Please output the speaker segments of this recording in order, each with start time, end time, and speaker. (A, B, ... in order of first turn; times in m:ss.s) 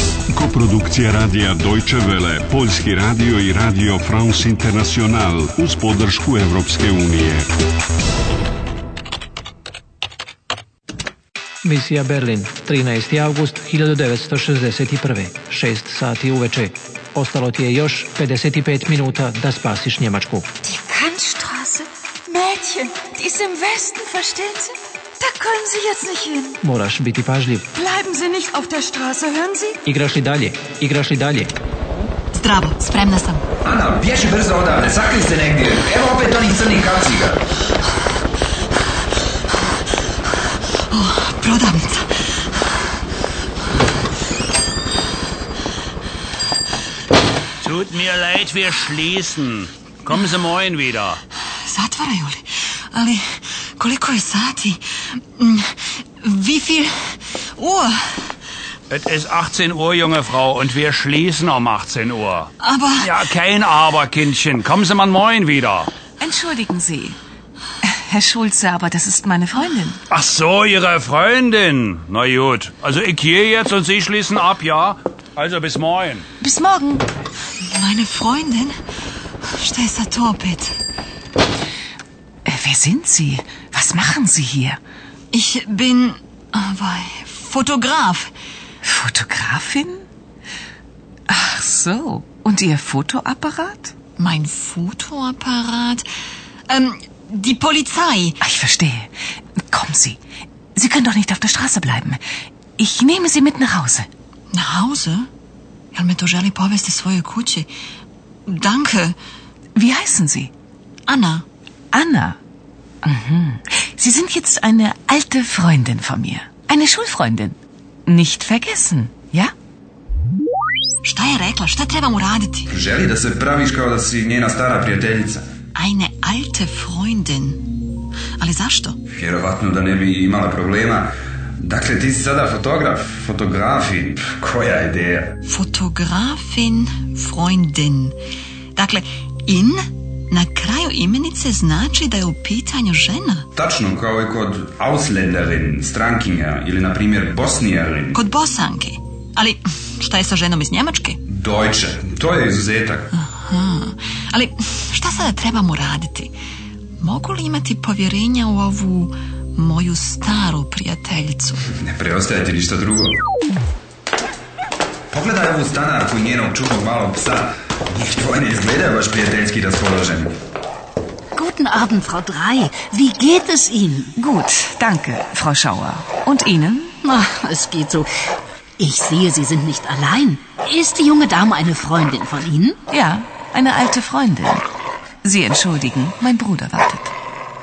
0:00.3-0:07.4 A
0:11.6-0:20.5 B
0:20.6-0:26.6 C
0:26.6-0:27.7 B
0:27.7-0:29.8 C
0:29.8-0:31.5 B
0:32.3-0:33.4 D
0:33.6-0:37.4 E
0:40.9-0:42.2 D
0:47.6-0:51.1 F
0:51.7-0:58.1 D
0:58.9-1:02.4 F
1:02.6-1:03.2 D
1:03.3-1:05.9 F
1:06.2-1:07.2 G
1:07.8-1:10.0 G
1:10.1-1:16.2 F
1:16.4-1:17.0 G
1:17.6-1:18.7 D
1:19.5-1:20.7 D
1:22.4-1:24.8 G
1:25.3-1:28.3 D
1:28.8-1:30.0 G
1:31.3-1:33.9 G
1:34.2-1:36.0 D
1:36.7-1:38.4 D
1:38.4-1:39.1 G
1:39.7-1:40.2 G
1:40.7-1:42.2 G
1:42.8-1:44.1 G
1:44.5-1:45.3 D
1:45.9-1:47.7 D
1:48.5-1:49.2 D
1:49.7-1:50.5 G
1:51.1-1:51.4 D
1:51.9-1:52.4 G
1:53.0-1:59.5 G
2:01.0-2:02.7 D
2:02.7-2:05.4 E
2:05.7-2:07.7 D
2:08.4-2:09.0 D
2:09.1-2:15.3 E
2:15.4-2:18.2 D
2:18.7-2:23.4 D
2:23.6-2:28.2 E
2:28.1-2:31.2 D
2:31.3-2:33.1 E
2:33.1-2:36.3 D
2:37.0-2:41.6 D
2:41.7-2:43.2 E
2:45.1-2:50.3 E
2:51.3-2:54.1 H
2:54.2-2:56.9 G
2:57.0-2:58.2 H
2:58.8-3:02.8 H
3:02.9-3:04.6 G
3:05.2-3:07.1 G